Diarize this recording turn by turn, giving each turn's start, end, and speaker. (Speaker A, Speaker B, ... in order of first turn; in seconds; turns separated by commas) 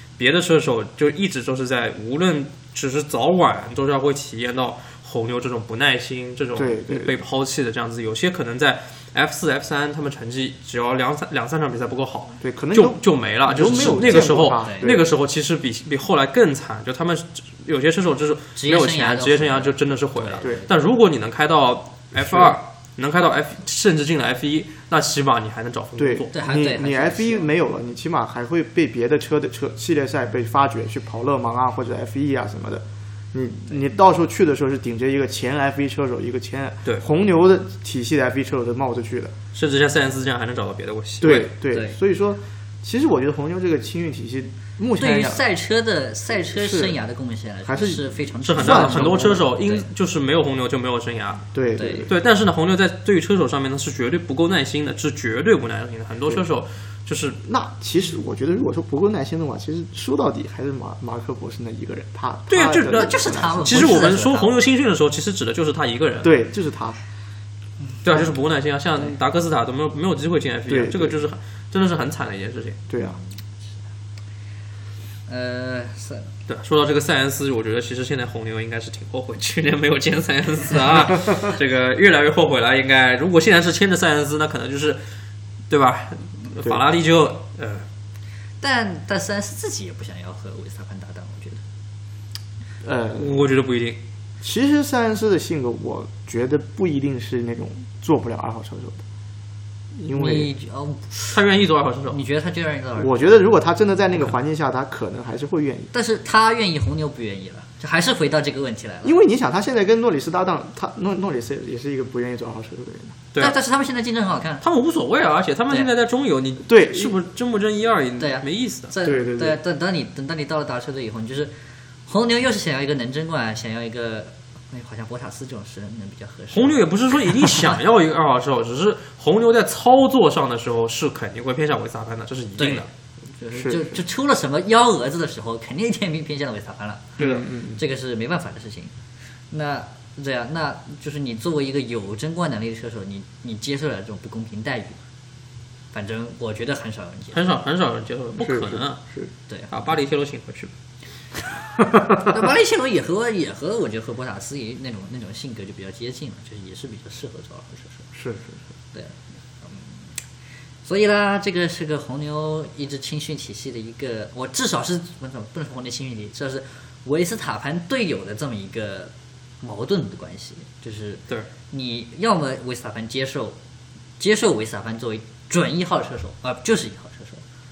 Speaker A: 0.2-26.3, Speaker B: 6.5-7.2, Speaker B: 12.4-15.1, Speaker C: 14.6-14.9, Speaker C: 18.6-20.7, Speaker B: 22.2-22.6, Speaker B: 26.0-39.3, Speaker C: 26.3-27.5, Speaker A: 39.5-41.5, Speaker B: 41.2-45.4, Speaker C: 41.7-42.0, Speaker C: 45.0-49.9, Speaker B: 46.5-47.0, Speaker B: 47.6-49.5, Speaker A: 48.4-51.5, Speaker B: 51.5-52.1, Speaker C: 51.8-52.1, Speaker A: 52.1-57.4, Speaker B: 57.4-64.1, Speaker A: 62.5-66.4, Speaker C: 62.9-64.5, Speaker B: 66.2-67.0, Speaker A: 68.0-72.8, Speaker B: 70.7-71.2, Speaker B: 72.9-73.2, Speaker C: 75.3-76.3, Speaker A: 76.5-85.0, Speaker A: 85.7-87.9, Speaker C: 88.6-91.6, Speaker B: 92.8-93.5, Speaker A: 93.2-94.0, Speaker B: 94.4-99.0, Speaker B: 100.0-100.5, Speaker C: 100.1-101.4, Speaker A: 101.3-102.2, Speaker C: 102.1-103.3, Speaker B: 103.0-105.9, Speaker C: 105.9-109.1, Speaker B: 109.0-113.2, Speaker C: 113.4-114.6, Speaker A: 114.6-118.9, Speaker B: 116.7-117.2, Speaker C: 118.2-121.5, Speaker B: 119.0-119.6, Speaker C: 122.1-127.8, Speaker A: 126.5-132.9, Speaker C: 132.6-138.9, Speaker B: 133.6-134.0, Speaker A: 137.2-137.4, Speaker B: 137.2-137.8, Speaker C: 139.5-145.0, Speaker C: 145.9-147.4, Speaker A: 147.3-149.0, Speaker B: 148.4-149.3, Speaker A: 149.7-150.7, Speaker C: 152.2-158.1, Speaker B: 158.1-158.6, Speaker C: 158.9-160.2, Speaker C: 160.8-173.6, Speaker C: 174.2-177.4